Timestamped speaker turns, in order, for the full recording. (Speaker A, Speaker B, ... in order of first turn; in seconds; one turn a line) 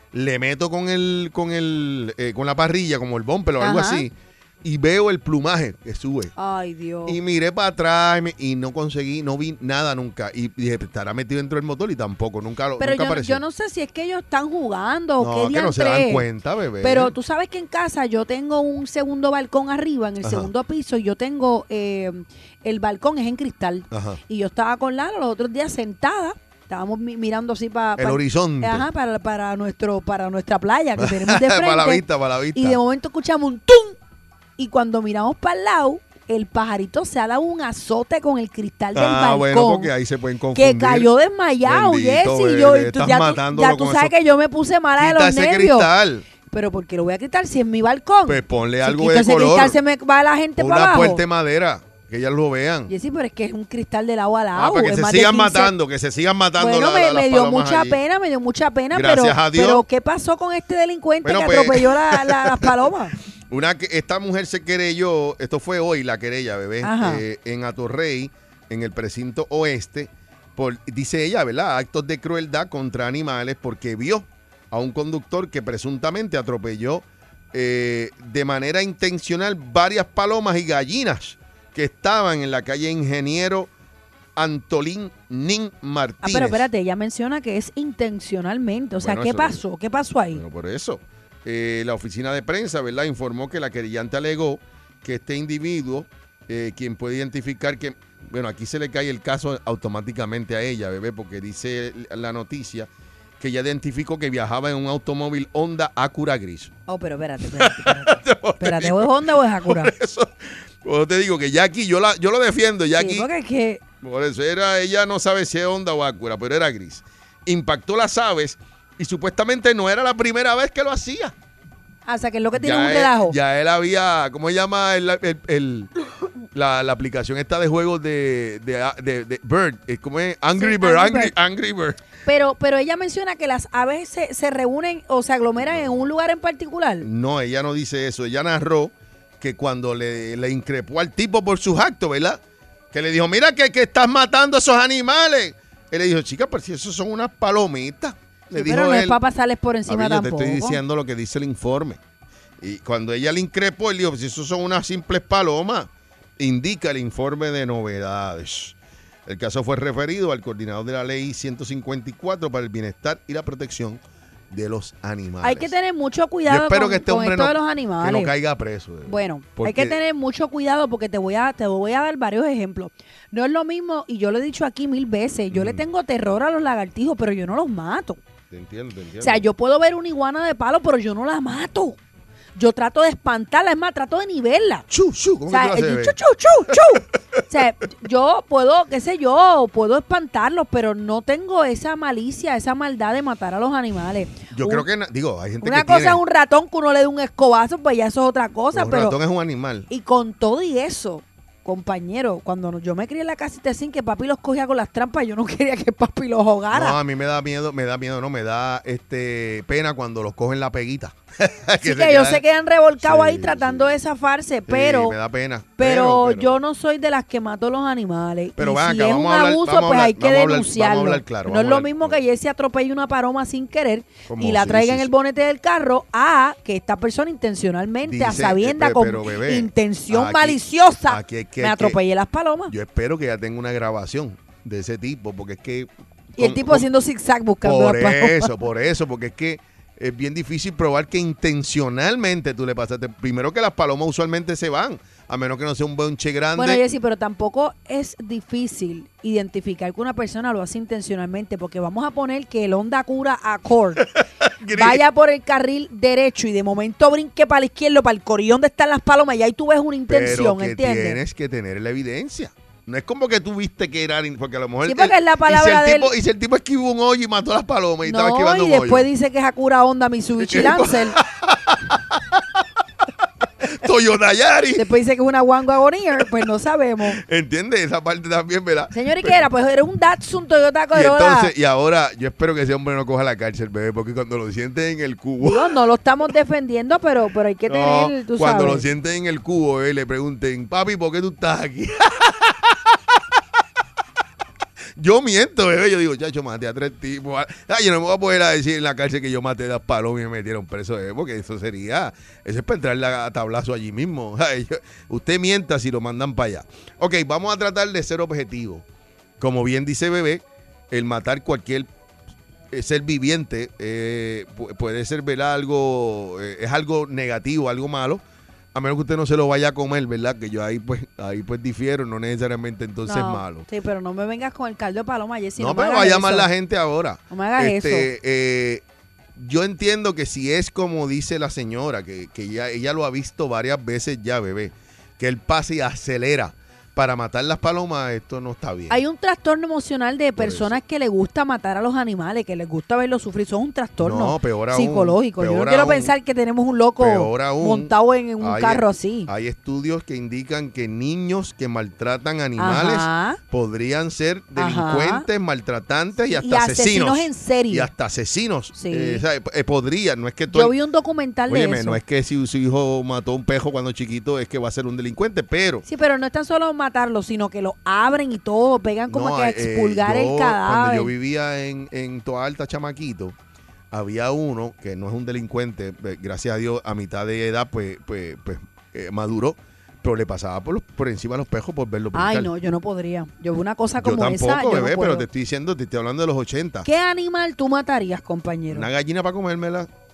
Speaker A: 0.1-6.3
Speaker B: 3.6-4.1
Speaker B: 6.4-7.2
Speaker A: 7.1-13.4
Speaker B: 12.8-16.2
Speaker A: 15.2-17.1
Speaker B: 16.8-32.0
Speaker A: 20.2-20.5
Speaker A: 23.9-24.2
Speaker A: 28.0-28.9
Speaker A: 31.0-32.8
Speaker B: 32.5-34.0
Speaker B: 34.6-39.9
Speaker A: 38.9-41.1
Speaker B: 40.5-45.9
Speaker A: 41.6-44.1
Speaker A: 45.0-46.3
Speaker B: 46.5-51.2
Speaker A: 48.3-49.8
Speaker A: 50.6-52.9
Speaker B: 52.9-55.7
Speaker A: 54.5-58.0
Speaker B: 56.6-63.1
Speaker A: 58.9-59.9
Speaker A: 61.2-62.9
Speaker A: 63.5-83.7
Speaker B: 66.8-67.2
Speaker A: 84.4-86.7
Speaker B: 86.2-90.4
Speaker A: 89.0-89.6
Speaker A: 90.3-106.7
Speaker B: 106.9-109.9
Speaker A: 107.5-113.3
Speaker B: 113.0-113.8
Speaker A: 114.0-121.3
Speaker B: 122.1-123.4
Speaker A: 122.5-125.9
Speaker A: 126.5-132.0
Speaker B: 130.6-131.3
Speaker B: 132.3-137.1
Speaker A: 135.6-136.1
Speaker A: 137.0-142.4
Speaker A: 142.9-149.2
Speaker B: 148.5-150.8
Speaker A: 149.9-152.0
Speaker A: 152.6-165.7
Speaker B: 165.4-168.3
Speaker A: 166.5-170.0
Speaker B: 169.1-178.2
Speaker A: 175.5-175.8
Speaker A: 178.5-179.5
Speaker B: 179.2-182.0
Speaker B: 182.6-184.9
Speaker A: 184.9-186.2
Speaker B: 185.5-194.9
Speaker A: 186.7-187.0
Speaker A: 194.5-196.2
Speaker B: 195.6-199.2
Speaker A: 198.7-199.9
Speaker B: 199.9-207.0
Speaker A: 206.7-212.4
Speaker B: 211.8-215.2
Speaker A: 213.0-213.9
Speaker A: 214.7-216.6
Speaker B: 215.8-232.7
Speaker A: 218.6-222.2
Speaker A: 224.3-225.1
Speaker A: 228.0-232.0
Speaker A: 232.7-236.9
Speaker B: 236.4-238.5
Speaker A: 237.6-246.8
Speaker B: 246.6-254.1
Speaker A: 254.0-255.0
Speaker B: 254.7-261.2
Speaker A: 260.1-269.1
Speaker B: 264.9-266.1
Speaker B: 268.0-271.2
Speaker A: 270.4-272.4
Speaker A: 273.6-274.9
Speaker B: 274.8-277.2
Speaker A: 277.1-279.4
Speaker B: 278.9-281.5
Speaker A: 280.9-285.7
Speaker B: 285.4-288.9
Speaker A: 287.7-292.8
Speaker A: 295.0-308.9
Speaker A: 309.4-311.9
Speaker A: 312.7-318.2
Speaker A: 318.7-323.7
Speaker B: 323.1-326.5
Speaker A: 325.6-328.8
Speaker B: 327.3-328.1
Speaker A: 329.4-339.0
Speaker B: 338.9-349.3
Speaker A: 340.4-340.8
Speaker A: 344.0-346.1
Speaker A: 347.0-360.7
Speaker B: 352.6-353.4
Speaker B: 354.6-355.3
Speaker B: 356.3-357.9
Speaker B: 358.7-359.2
Speaker B: 360.5-362.0
Speaker A: 361.5-365.9
Speaker B: 365.9-371.1
Speaker A: 369.1-373.4
Speaker A: 373.9-382.5
Speaker B: 382.1-385.2
Speaker A: 384.0-386.9
Speaker B: 386.9-388.9
Speaker A: 388.7-389.9